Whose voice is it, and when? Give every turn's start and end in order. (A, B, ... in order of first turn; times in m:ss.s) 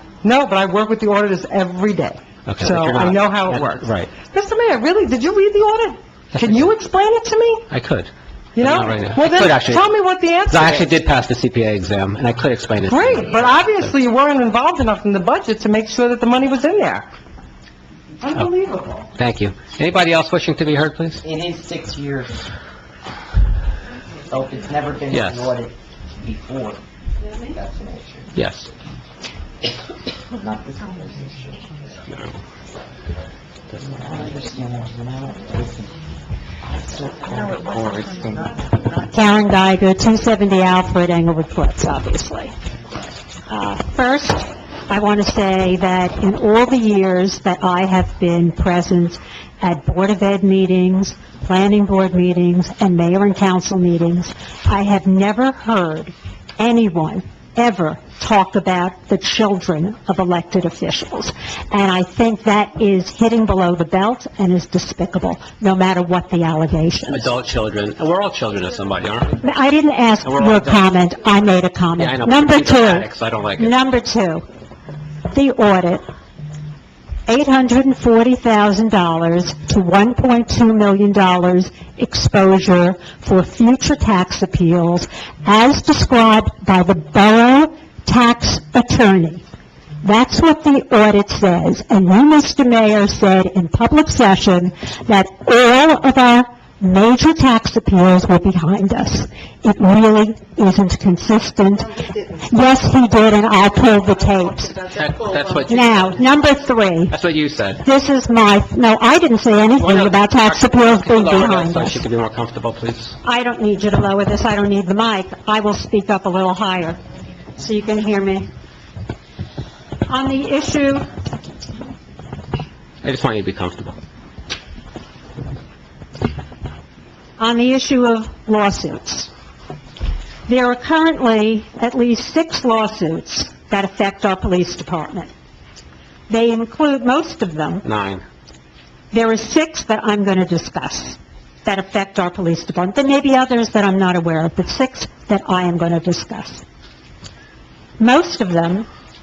0:00.2-0:07.6 A
0:02.4-0:04.1 B
0:06.3-0:06.6 B
0:07.7-0:08.1 B
0:08.6-0:10.9 A
0:08.6-0:09.8 B
0:10.5-0:13.8 B
0:12.9-0:17.1 A
0:18.2-0:19.0 A
0:19.2-0:21.2 B
0:21.2-0:22.4 C
0:24.3-0:26.8 C
0:25.1-0:25.5 B
0:27.4-0:28.3 C
0:28.4-0:28.7 B
0:30.4-0:32.3 C
0:33.7-0:35.9 C
0:36.7-0:38.5 C
0:39.1-0:42.5 D
0:43.5-1:07.3 D
1:07.1-1:09.4 B
1:09.4-1:14.4 D
1:10.2-1:10.9 B
1:12.0-1:13.7 B
1:15.3-1:16.0 D
1:17.3-1:29.4 D
1:30.0-1:42.0 D
1:42.5-1:44.8 D
1:44.9-1:46.1 B
1:45.6-1:47.2 D
1:47.1-1:47.8 B
1:47.8-1:52.0 D
1:49.8-1:53.1 B
1:53.2-1:57.0 D
1:57.6-1:58.5 D
2:00.1-2:01.0 D
2:03.0-2:04.0 B
2:07.4-2:09.3 D
2:10.5-2:15.3 D
2:16.3-2:17.8 D
2:17.8-2:18.2 B
2:19.1-2:26.6 D
2:28.0-2:28.9 D